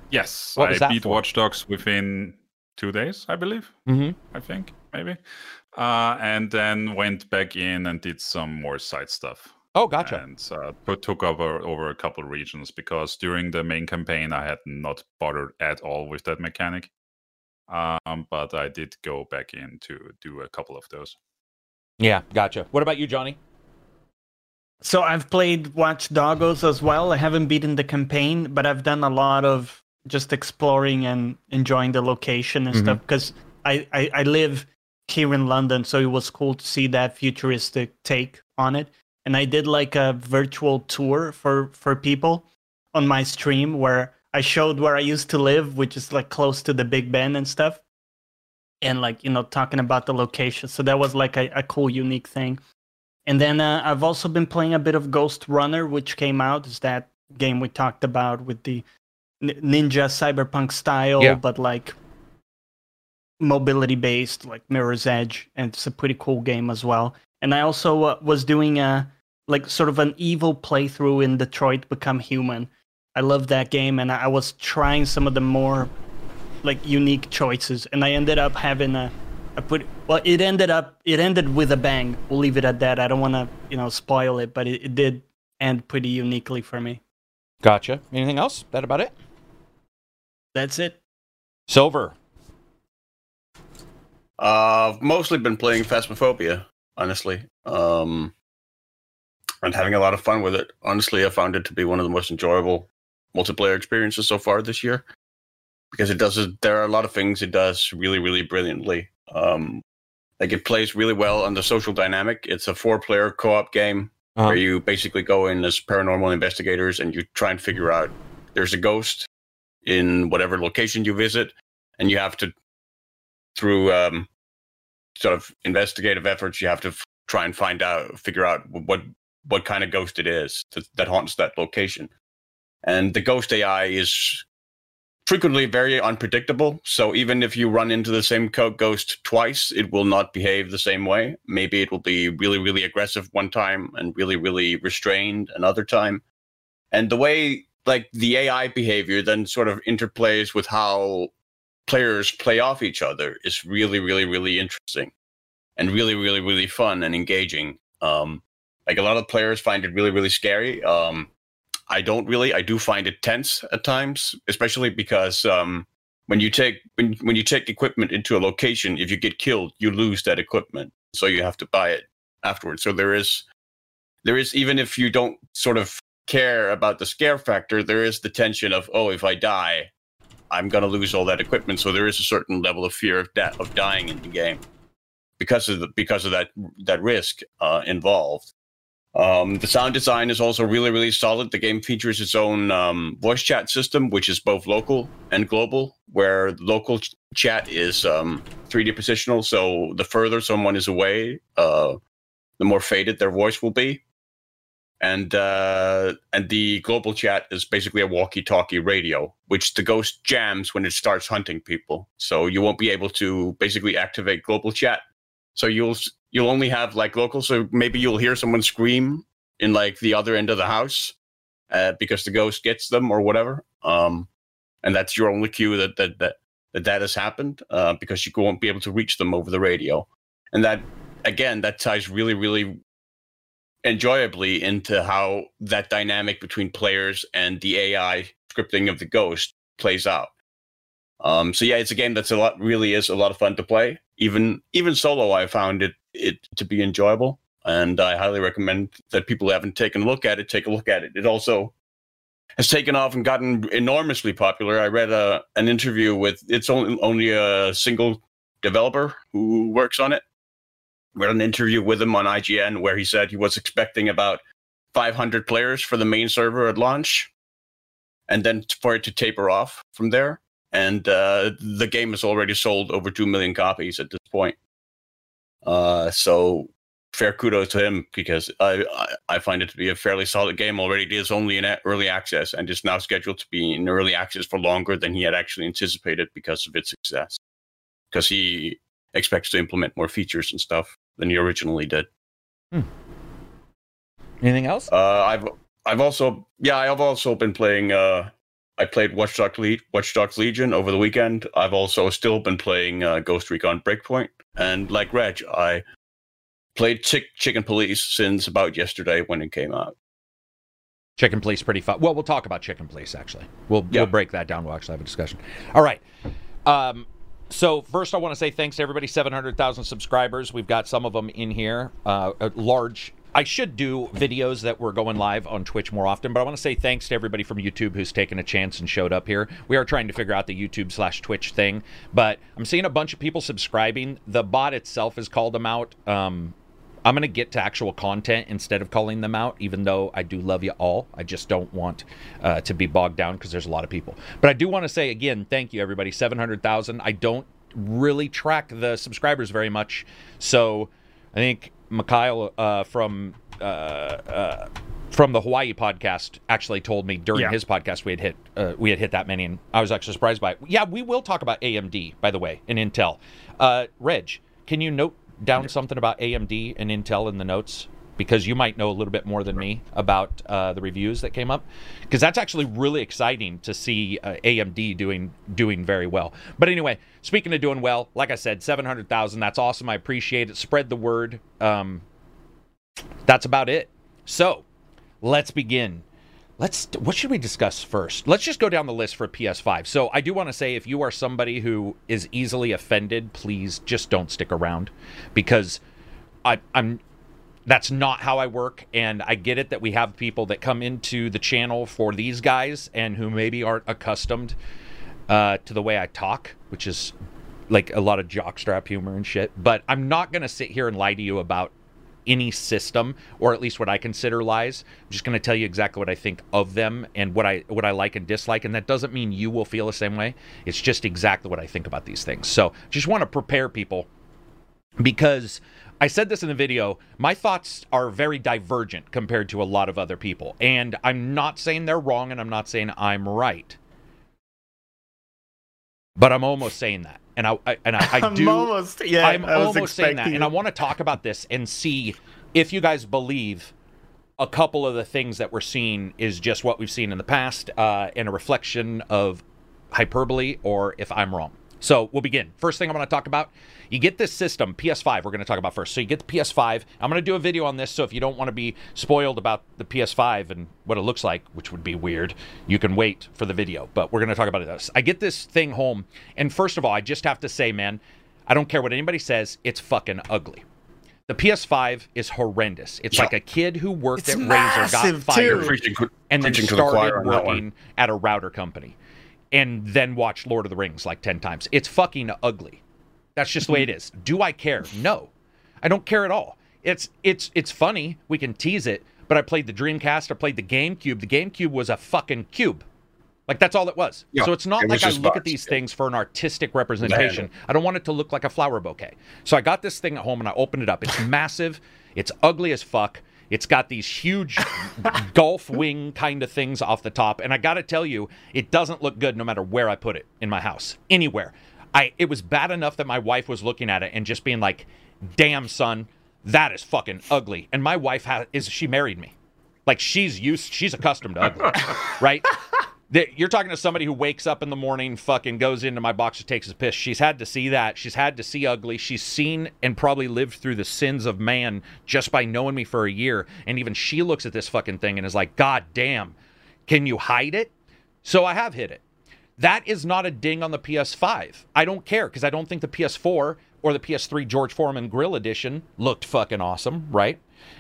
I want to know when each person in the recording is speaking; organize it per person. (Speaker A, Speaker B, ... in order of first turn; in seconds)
Speaker A: 0.1-3.8, 4.3-5.2, 5.7-9.5, 10.0-16.9, 17.7-21.2
Speaker B: 0.6-1.2, 3.9-4.2, 9.7-10.2, 22.0-23.4, 32.7-33.0, 87.6-89.2, 91.7-92.2, 114.4-114.6, 294.4-294.9, 311.2-316.0, 316.7-382.0, 383.3-384.7, 385.2-386.1, 386.6-395.8, 396.4-397.0, 397.7-404.6, 405.3-407.1, 407.7-411.7, 412.3-424.1, 425.0-433.8, 436.2-443.7, 444.4-470.6, 471.3-475.8, 476.3-479.0, 479.5-482.8, 483.4-485.3, 485.8-492.8, 493.5-519.3, 519.9-522.6, 523.1-536.4, 536.9-537.7, 538.2-539.0, 539.6-547.4
Speaker C: 24.8-47.8, 48.8-52.6, 53.3-58.9, 59.4-62.0, 63.4-75.9, 76.6-87.0, 90.5-91.0, 438.0-440.5, 474.2-475.7
Speaker D: 94.4-98.3, 99.6-105.0, 105.9-109.8, 110.4-119.3, 119.8-122.5, 123.6-124.3, 125.2-132.1, 132.8-134.4, 135.3-146.2, 146.9-151.3, 151.9-155.1, 155.8-161.3, 161.9-173.5, 174.2-179.9, 180.5-184.6, 185.4-188.5, 189.1-202.0, 202.6-204.0, 205.0-215.0, 215.6-221.2, 221.7-224.3, 224.8-232.8, 233.8-240.3, 241.2-251.7, 252.6-260.2, 261.1-264.4, 264.9-267.3, 268.3-274.6, 275.6-287.4, 288.1-292.1, 294.9-305.8, 306.8-309.9, 475.4-477.6, 494.3-495.8, 497.0-497.4